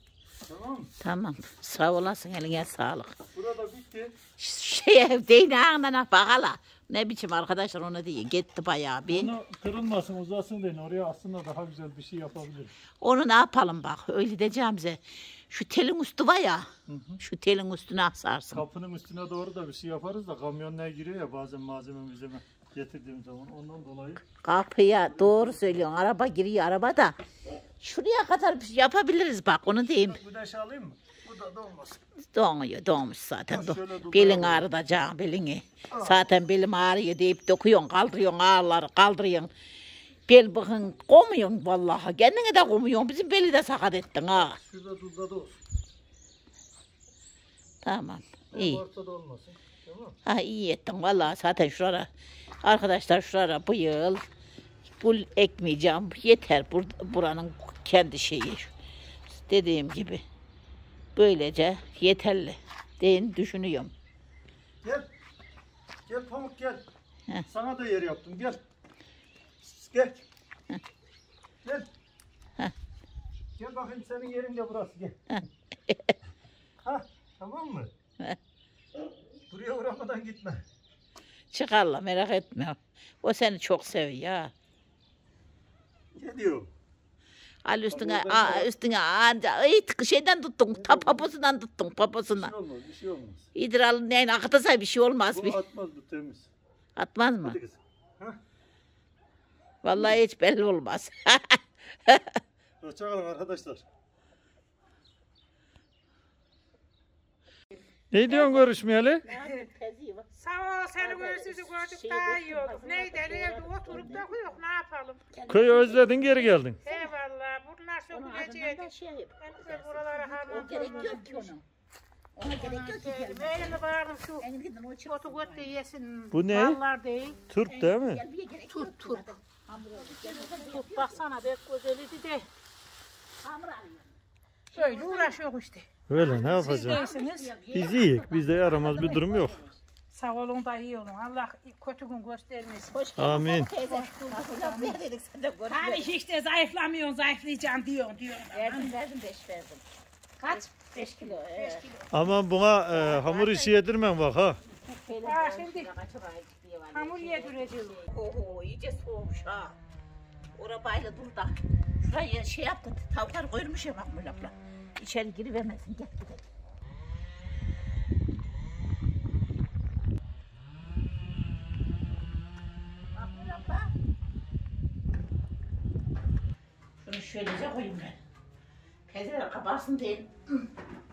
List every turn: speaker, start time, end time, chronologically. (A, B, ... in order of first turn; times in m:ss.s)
0:00.5-0:00.9 A
0:01.0-0:03.1 B
0:03.3-0:04.2 A
0:04.4-0:09.3 B
0:09.1-0:12.7 A
0:13.0-0:16.6 B
0:16.9-0:17.2 A
0:17.2-0:18.6 B
0:18.5-0:24.2 A
0:24.4-0:27.2 B
0:25.1-0:26.0 A
0:27.8-0:30.2 B
0:29.9-0:32.0 A
0:32.3-0:39.5 B
0:33.5-0:34.7 A
0:35.9-0:36.3 A
0:40.3-0:44.6 B
0:44.4-0:45.6 A
0:47.8-0:48.8 B
0:48.5-0:50.2 A
0:50.2-0:52.1 B
0:52.6-0:54.2 B
0:55.0-0:58.7 B
0:59.3-1:00.2 B
1:01.2-1:03.9 B
1:04.8-1:05.1 A
1:06.1-1:06.8 A
1:07.5-1:08.6 A
1:09.6-1:10.2 A
1:13.6-1:15.2 A
1:15.3-1:16.1 B
1:16.8-1:17.9 A
1:19.5-1:20.6 A
1:21.5-1:24.5 B
1:26.1-1:26.7 A
1:27.6-1:32.5 B
1:27.9-1:28.7 A
1:30.7-1:31.3 A
1:32.3-1:33.5 A
1:33.5-1:35.6 B
1:35.3-1:36.5 A
1:37.0-1:37.6 B
1:37.4-1:38.4 A
1:39.8-1:42.4 B
1:42.8-1:43.8 A
1:48.1-1:49.2 A
1:48.2-1:50.3 B
1:50.3-1:55.2 C
1:51.0-1:54.5 B
1:55.3-1:57.2 B
1:55.5-1:56.8 A
1:56.8-1:58.9 C
1:58.1-2:01.6 B
1:59.4-2:01.5 C
2:02.4-2:03.8 B
2:02.4-2:04.4 C
2:04.4-2:05.7 B
2:05.0-2:07.4 C
2:06.3-2:06.8 A
2:07.5-2:08.2 A
2:07.7-2:11.4 B
2:08.7-2:09.3 C
2:10.0-2:12.5 C
2:13.4-2:14.1 B
2:14.7-2:15.4 B
2:14.7-2:17.5 C
2:16.1-2:17.0 A
2:16.2-2:19.8 B
2:17.7-2:19.6 A
2:20.1-2:25.0 C
2:22.9-2:26.1 B
2:23.2-2:23.7 A
2:25.7-2:28.9 C
2:28.5-2:29.8 B
2:30.4-2:32.1 C
2:30.4-2:31.8 B
2:32.1-2:34.6 A
2:32.9-2:33.8 B
2:34.8-2:39.8 B
2:35.2-2:35.9 C
2:36.9-2:38.0 C
2:40.5-2:46.4 B
2:53.1-2:53.9 B
2:57.0-2:58.2 B
2:59.1-3:00.7 B